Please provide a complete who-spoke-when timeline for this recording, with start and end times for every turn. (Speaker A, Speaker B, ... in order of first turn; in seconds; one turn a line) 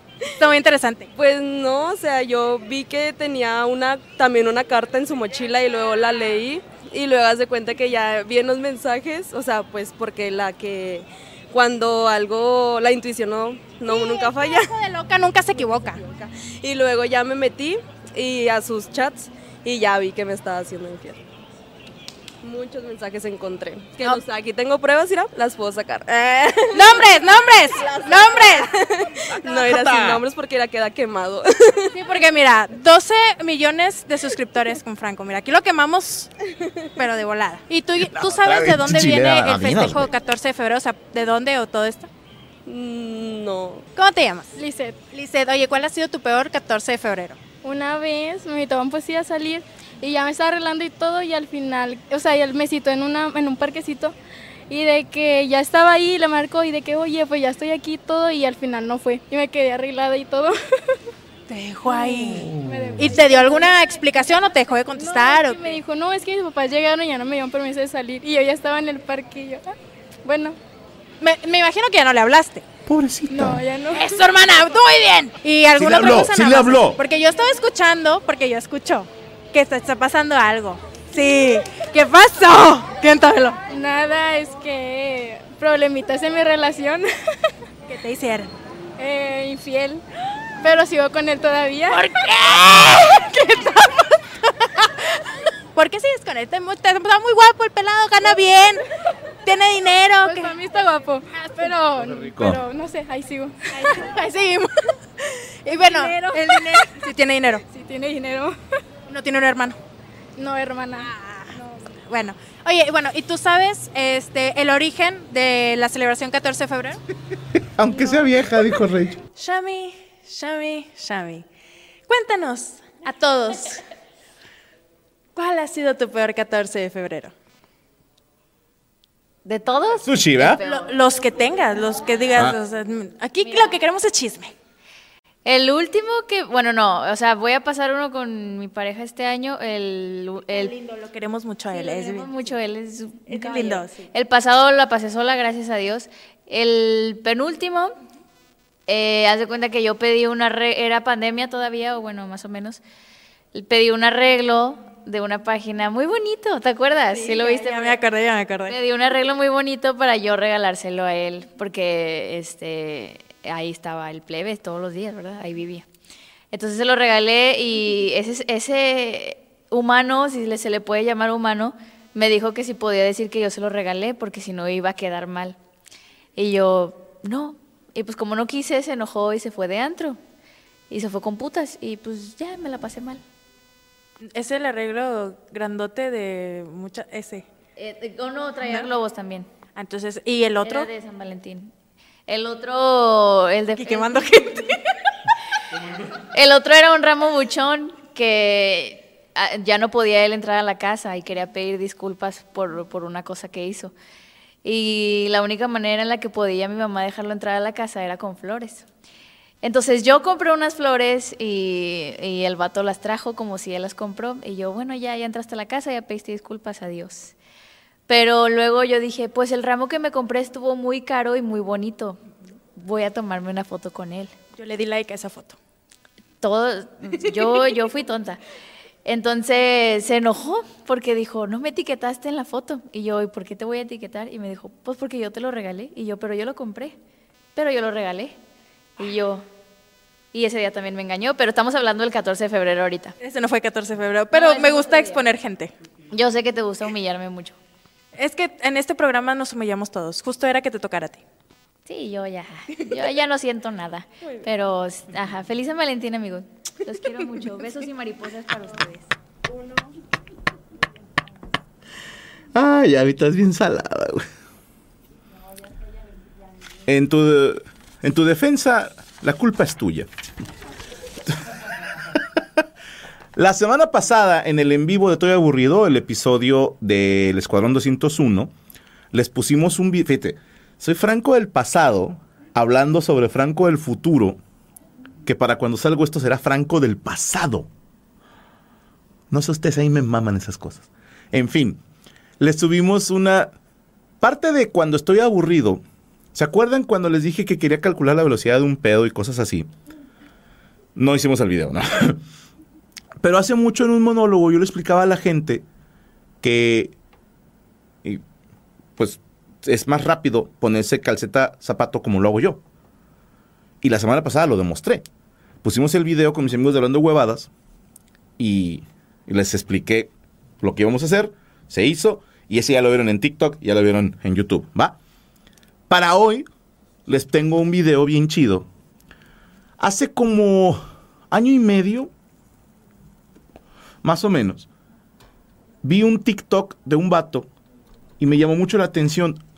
Speaker A: 0.3-1.1
Speaker B: 1.1-14.7
Speaker A: 13.9-16.0
Speaker B: 16.0-21.2
Speaker B: 22.4-32.0
Speaker A: 26.7-28.7
Speaker C: 29.5-30.2
Speaker A: 31.9-36.3
Speaker A: 37.0-42.1
Speaker C: 38.0-40.1
Speaker B: 42.6-43.9
Speaker A: 44.0-44.5
Speaker D: 44.5-45.0
Speaker A: 45.1-47.4
Speaker D: 47.6-54.1
Speaker D: 54.7-61.0
Speaker A: 61.5-65.7
Speaker D: 61.9-69.7
Speaker D: 70.2-70.6
Speaker A: 71.2-72.6
Speaker C: 72.9-73.6
Speaker D: 73.3-74.2
Speaker A: 73.9-83.6
Speaker C: 75.7-77.0
Speaker D: 83.7-87.1
Speaker A: 87.9-88.5
Speaker D: 89.0-90.0
Speaker D: 90.6-92.1
Speaker A: 91.9-94.2
Speaker A: 95.8-98.8
Speaker A: 99.5-100.5
Speaker D: 100.2-104.1
Speaker C: 102.0-102.6
Speaker A: 103.8-104.9
Speaker A: 105.7-107.6
Speaker D: 105.7-107.0
Speaker D: 107.7-108.5
Speaker A: 109.1-109.8
Speaker D: 110.4-111.7
Speaker A: 111.1-117.0
Speaker C: 117.6-119.2
Speaker A: 119.4-121.5
Speaker A: 122.1-123.8
Speaker A: 125.4-127.3
Speaker E: 129.4-130.9
Speaker C: 130.0-130.6
Speaker A: 130.6-134.5
Speaker E: 133.4-133.8
Speaker E: 135.4-140.8
Speaker A: 140.5-142.4
Speaker E: 141.7-147.9
Speaker A: 143.3-144.1
Speaker E: 148.9-152.8
Speaker E: 153.5-158.0
Speaker A: 157.1-158.8
Speaker E: 158.7-165.8
Speaker E: 166.5-175.6
Speaker E: 176.4-180.2
Speaker E: 180.9-183.2
Speaker A: 184.3-187.5
Speaker E: 187.8-189.5
Speaker A: 189.8-190.9
Speaker E: 190.6-191.7
Speaker E: 192.3-194.4
Speaker A: 193.7-194.8
Speaker E: 196.3-203.9
Speaker E: 204.6-208.9
Speaker E: 209.6-217.3
Speaker E: 218.1-222.2
Speaker E: 222.8-224.3
Speaker A: 224.6-225.6
Speaker E: 226.4-228.4
Speaker E: 229.0-236.9
Speaker E: 237.6-238.4
Speaker E: 239.0-239.5
Speaker E: 240.3-243.1
Speaker A: 243.2-245.7
Speaker E: 244.3-245.2
Speaker E: 246.1-247.6
Speaker A: 248.1-251.2
Speaker E: 251.9-259.1
Speaker C: 262.5-264.2
Speaker C: 266.9-270.1
Speaker C: 273.4-278.5
Speaker C: 279.1-284.4
Speaker C: 285.2-287.7
Speaker C: 289.3-291.8
Speaker C: 292.4-293.5
Speaker C: 294.2-295.8
Speaker C: 296.3-299.7
Speaker C: 300.9-302.2
Speaker C: 303.2-305.6
Speaker C: 306.4-307.0
Speaker C: 309.0-312.6
Speaker C: 313.8-315.0
Speaker C: 315.6-317.5
Speaker C: 318.4-325.0
Speaker C: 325.9-326.5
Speaker C: 327.1-328.7
Speaker C: 329.8-332.1
Speaker C: 334.0-334.7
Speaker C: 335.8-337.5
Speaker C: 338.2-339.4